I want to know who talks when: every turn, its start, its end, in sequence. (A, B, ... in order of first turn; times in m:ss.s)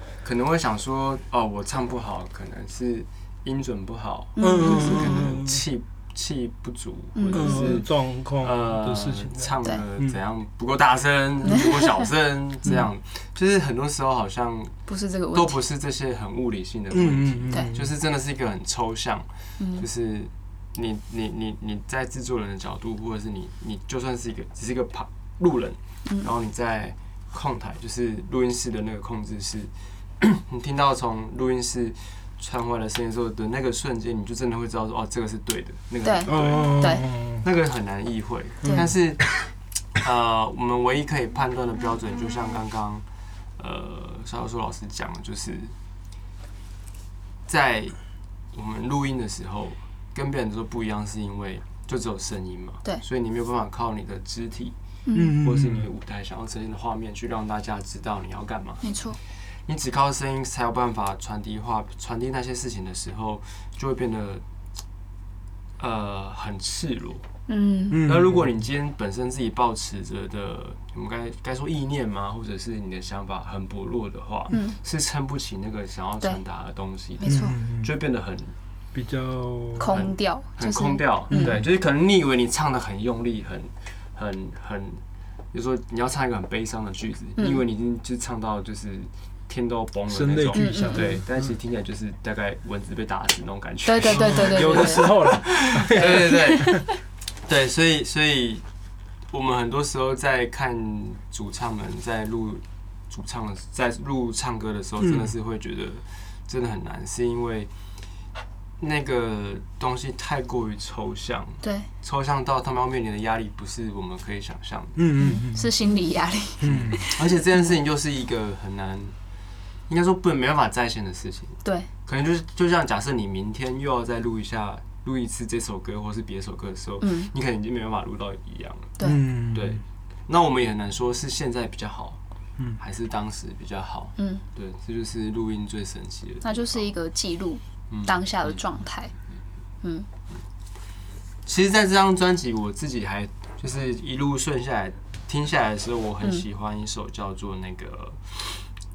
0:00.2-0:14.7 A
0:04.4-0:05.3 B
0:04.4-0:05.6 C
0:07.1-0:07.8 B
0:07.3-0:10.1 C
0:11.5-0:11.9 B
0:14.9-0:15.6 B
0:15.3-0:43.0 A
0:16.9-0:17.9 C
0:19.6-0:19.8 B
0:36.0-0:37.1 B
0:36.3-0:37.4 C
0:38.6-0:38.9 C
0:38.6-0:38.9 B
0:43.6-0:45.7 A
0:47.5-0:48.0 A
0:48.5-0:54.7 A
0:55.0-0:55.4 B
0:55.1-0:55.8 C
0:55.4-0:58.9 A
0:58.8-0:59.2 B
0:59.7-1:04.4 A
1:05.8-1:07.2 A
1:07.5-1:08.1 B
1:07.9-1:08.4 C
1:08.0-1:18.5 A
1:14.5-1:14.8 B
1:17.2-1:17.6 B
1:17.2-1:17.9 C
1:18.9-1:20.0 C
1:19.8-1:21.6 B
1:19.9-1:25.0 A
1:21.3-1:21.6 C
1:25.5-1:36.9 A
1:30.1-1:31.5 C
1:30.5-1:31.2 B
1:33.8-1:35.4 B
1:34.1-1:36.8 C
1:36.3-1:36.9 B
1:37.4-1:38.6 A
1:39.3-1:47.7 A
1:45.0-1:45.3 C
1:48.8-1:55.0 A
1:51.6-1:51.9 B
1:55.0-1:55.7 C
1:55.2-1:57.3 B
1:56.6-1:57.0 C
1:56.7-1:59.1 A
1:59.9-2:09.0 A
2:07.0-2:07.3 B
2:09.0-2:09.2 B
2:09.0-2:09.8 C
2:09.5-2:12.2 A
2:12.8-2:16.8 A
2:14.2-2:14.4 B
2:16.4-2:19.1 B
2:17.9-2:18.6 A
2:21.4-2:28.6 A